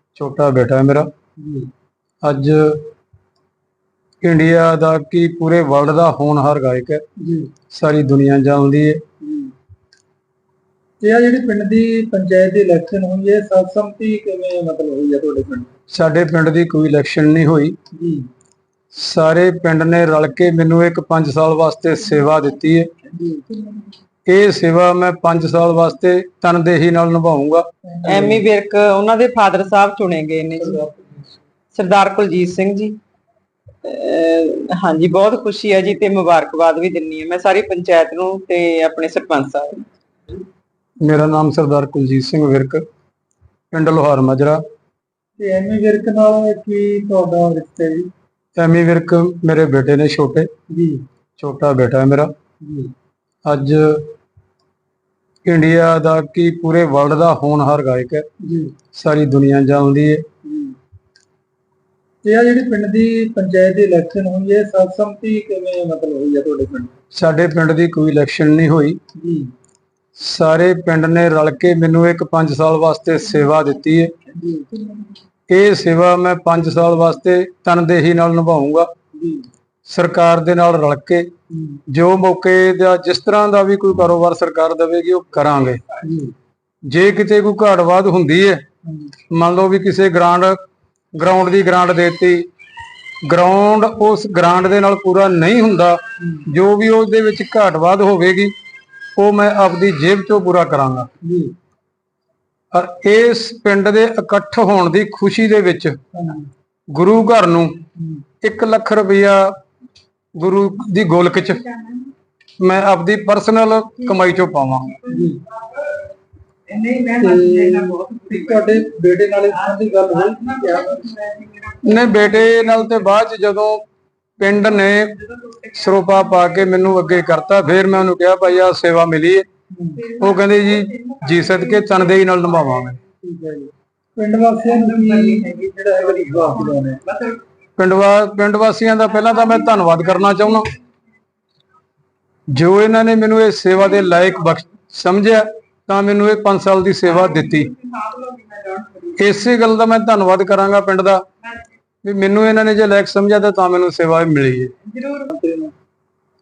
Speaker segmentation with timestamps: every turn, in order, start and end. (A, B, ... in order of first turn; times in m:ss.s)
0:00.2-0:01.1 A
0:01.4-0:01.7 B
0:02.2-0:02.8 A
0:04.2-0:07.0 A
0:07.2-0:07.5 B
0:07.7-0:09.0 A
0:09.2-0:09.5 B
0:11.0-0:15.7 B
0:15.9-0:17.8 A
0:17.9-0:18.3 B
0:18.9-0:22.9 A
0:23.1-0:23.4 B
0:24.3-0:27.6 A
0:27.9-0:28.4 B
0:28.0-0:30.8 C
0:30.6-0:31.3 B
0:31.7-0:33.0 C
0:33.8-0:39.8 C
0:41.0-0:42.8 A
0:43.7-0:44.6 A
0:45.4-0:48.1 B
0:48.6-0:50.5 A
0:50.7-0:51.0 B
0:51.4-0:52.3 A
0:52.6-0:52.9 B
0:53.5-0:54.1 A
0:55.5-0:58.2 A
0:58.4-0:58.7 B
0:58.9-1:00.3 A
1:00.4-1:00.7 B
1:02.2-1:07.0 B
1:07.2-1:09.0 A
1:09.2-1:09.5 B
1:10.2-1:14.1 A
1:14.3-1:14.7 B
1:15.5-1:18.9 A
1:19.2-1:19.5 B
1:19.9-1:21.3 A
1:21.5-1:21.8 B
1:21.9-1:25.8 A
1:26.0-1:26.3 B
1:26.9-1:28.6 A
1:28.9-1:29.1 B
1:29.3-1:30.6 A
1:31.2-1:32.4 A
1:33.3-1:38.5 A
1:39.2-1:41.1 A
1:41.2-1:41.5 B
1:42.7-1:46.0 A
1:46.1-1:46.5 B
1:46.9-1:47.8 A
1:48.4-1:49.5 A
1:50.4-1:51.7 A
1:52.6-1:55.0 A
1:55.1-1:55.4 B
1:56.7-1:57.0 C
1:57.2-2:01.2 B
2:01.8-2:03.8 A
2:04.4-2:09.5 A
2:09.7-2:10.1 B
2:10.1-2:13.0 A
2:13.2-2:17.0 B
2:17.8-2:20.7 A
2:22.5-2:27.7 A
2:28.1-2:28.7 C
2:29.2-2:31.2 A
2:32.0-2:34.7 A
2:35.3-2:35.7 B